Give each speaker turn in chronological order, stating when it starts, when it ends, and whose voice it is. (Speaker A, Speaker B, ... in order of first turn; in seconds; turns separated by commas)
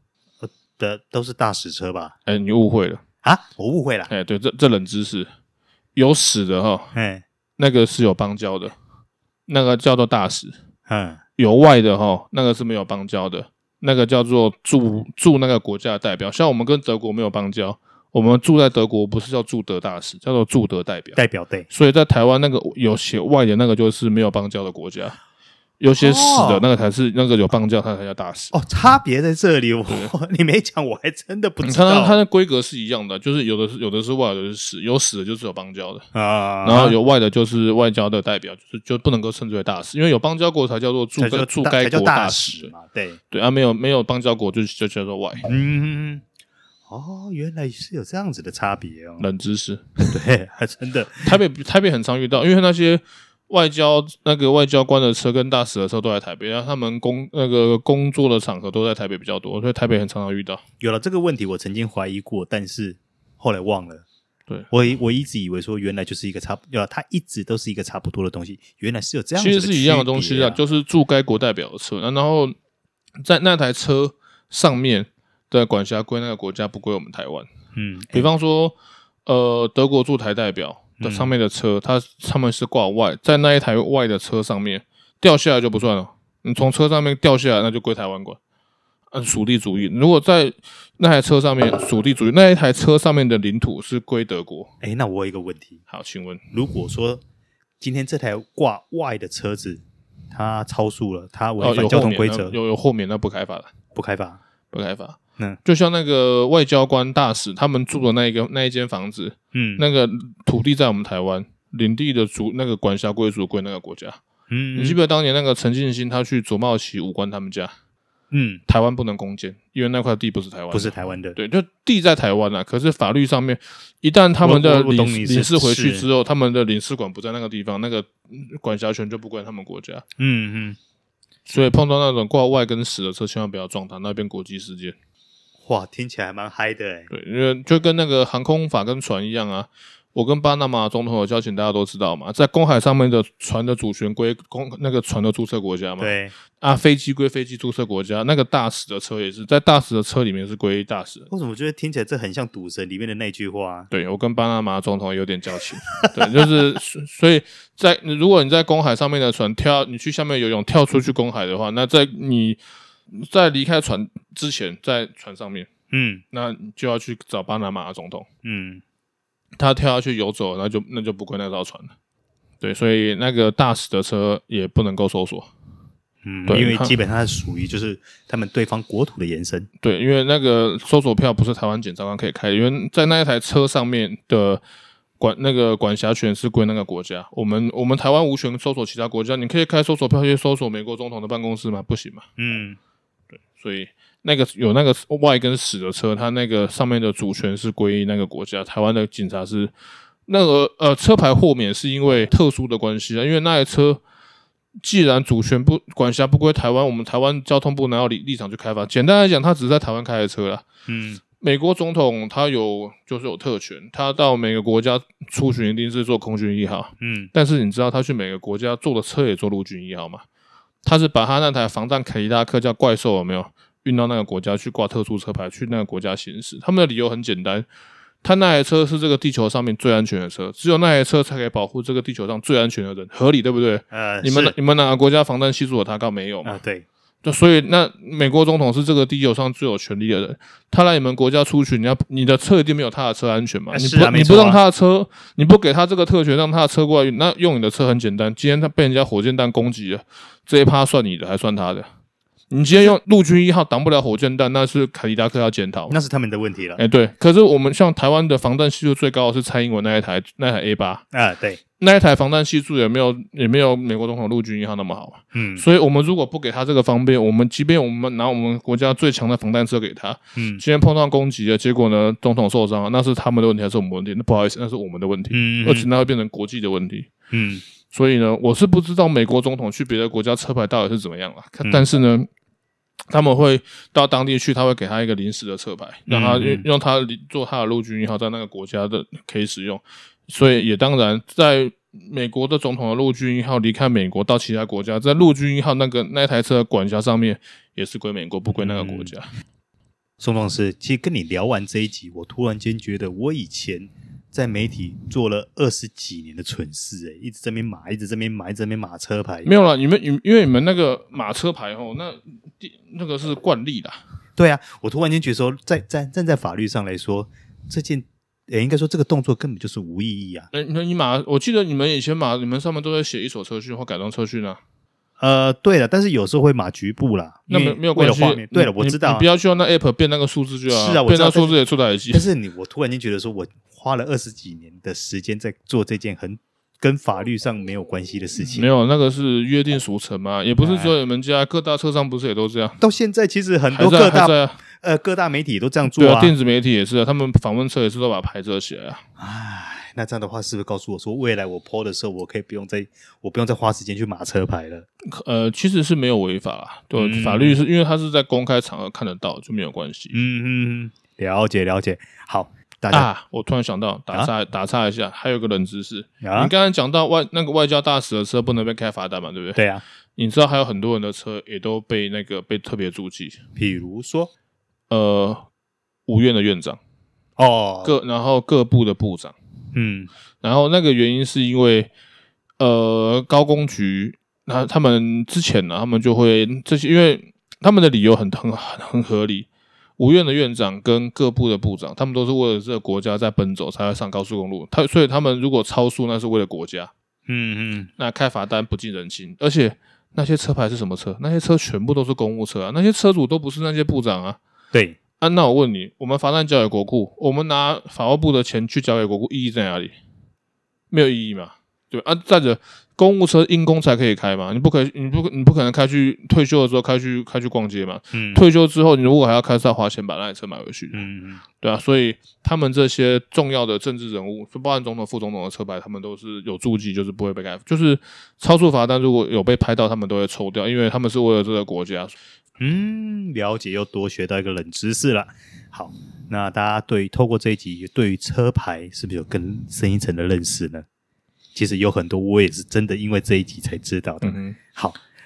Speaker A: 0.4-2.1, Speaker B: 2.2-3.0, Speaker A: 3.2-4.1, Speaker B: 4.1-5.3, Speaker B: 5.9-6.9, Speaker A: 6.9-7.2, Speaker B: 7.6-8.7, Speaker B: 9.5-10.5, Speaker A: 10.9-11.2, Speaker B: 11.4-21.2, Speaker A: 21.1-21.7, Speaker B: 21.7-25.2, Speaker B: 25.8-28.5, Speaker A: 26.0-26.6, Speaker A: 28.5-32.2, Speaker B: 31.6-36.0, Speaker A: 36.1-37.0, Speaker B: 36.6-42.7, Speaker A: 41.2-43.2, Speaker B: 43.3-45.5, Speaker A: 45.4-46.2, Speaker A: 46.9-49.3, Speaker B: 49.2-49.9, Speaker A: 50.0-51.4, Speaker B: 51.2-60.6, Speaker A: 60.8-64.0, Speaker A: 64.7-70.6, Speaker B: 69.3-72.5, Speaker B: 73.2-77.5, Speaker A: 77.8-78.3, Speaker B: 78.1-88.4, Speaker A: 81.0-81.3, Speaker B: 89.1-94.7, Speaker A: 94.8-95.8, Speaker B: 95.9-96.4, Speaker A: 96.5-97.2, Speaker A: 97.8-102.6, Speaker B: 101.6-103.7, Speaker A: 103.9-104.4, Speaker B: 104.7-114.2, Speaker A: 109.5-109.8, Speaker A: 114.5-115.0, Speaker B: 114.7-117.7, Speaker A: 118.3-118.6, Speaker B: 118.7-130.0, Speaker A: 120.7-121.4, Speaker A: 124.4-126.1, Speaker A: 130.2-130.8, Speaker B: 131.4-134.9, Speaker A: 135.6-137.1, Speaker B: 137.1-151.3, Speaker A: 146.0-146.3, Speaker A: 151.3-153.9, Speaker B: 153.9-165.7, Speaker A: 156.2-156.4, Speaker A: 165.9-166.2, Speaker B: 166.3-168.2, Speaker A: 168.4-168.8, Speaker B: 169.6-171.9, Speaker B: 172.6-175.5, Speaker A: 176.2-179.7, Speaker B: 176.5-176.9, Speaker B: 179.8-184.6, Speaker B: 185.2-192.2, Speaker A: 192.4-192.8, Speaker B: 193.5-199.7, Speaker B: 200.3-204.0, Speaker B: 204.8-210.6, Speaker A: 210.9-211.2, Speaker B: 211.4-220.2, Speaker A: 217.0-217.3, Speaker B: 220.8-227.7, Speaker B: 228.2-236.6, Speaker A: 233.9-234.5, Speaker A: 236.4-236.8, Speaker B: 237.2-251.9, Speaker A: 243.7-244.6, Speaker B: 252.5-256.0, Speaker A: 255.9-256.8, Speaker B: 256.8-261.0, Speaker A: 261.1-261.6, Speaker B: 261.8-277.1, Speaker A: 265.3-265.6, Speaker A: 270.4-270.6, Speaker A: 275.3-275.9, Speaker A: 277.3-277.6, Speaker B: 277.9-282.3, Speaker B: 283.1-299.3, Speaker A: 286.1-286.6, Speaker A: 298.5-299.1, Speaker A: 300.2-309.5, Speaker B: 309.4-314.0, Speaker A: 314.4-320.5, Speaker B: 320.5-324.6, Speaker A: 325.2-329.3, Speaker B: 327.5-332.2, Speaker A: 330.7-331.6, Speaker A: 332.1-338.7, Speaker B: 338.4-342.8, Speaker A: 340.6-340.9, Speaker A: 342.8-346.3, Speaker B: 343.7-344.6, Speaker B: 345.9-349.0, Speaker A: 349.2-354.9, Speaker B: 355.1-360.2, Speaker A: 356.9-357.6, Speaker A: 360.1-363.1, Speaker B: 362.9-369.6, Speaker A: 366.2-366.5, Speaker A: 369.6-369.8, Speaker B: 370.1-373.4, Speaker A: 373.6-374.3, Speaker B: 374.9-375.4, Speaker B: 376.1-376.8, Speaker A: 377.4-377.9, Speaker B: 377.8-379.3, Speaker A: 379.7-380.1, Speaker B: 380.4-381.9, Speaker B: 382.6-396.9, Speaker A: 397.3-397.9, Speaker B: 398.0-404.4, Speaker A: 404.7-405.0, Speaker B: 405.2-409.9, Speaker B: 410.9-421.1, Speaker A: 418.1-418.4, Speaker A: 420.9-421.4, Speaker B: 421.6-432.1, Speaker A: 432.6-440.9, Speaker A: 441.5-445.0, Speaker B: 444.2-444.6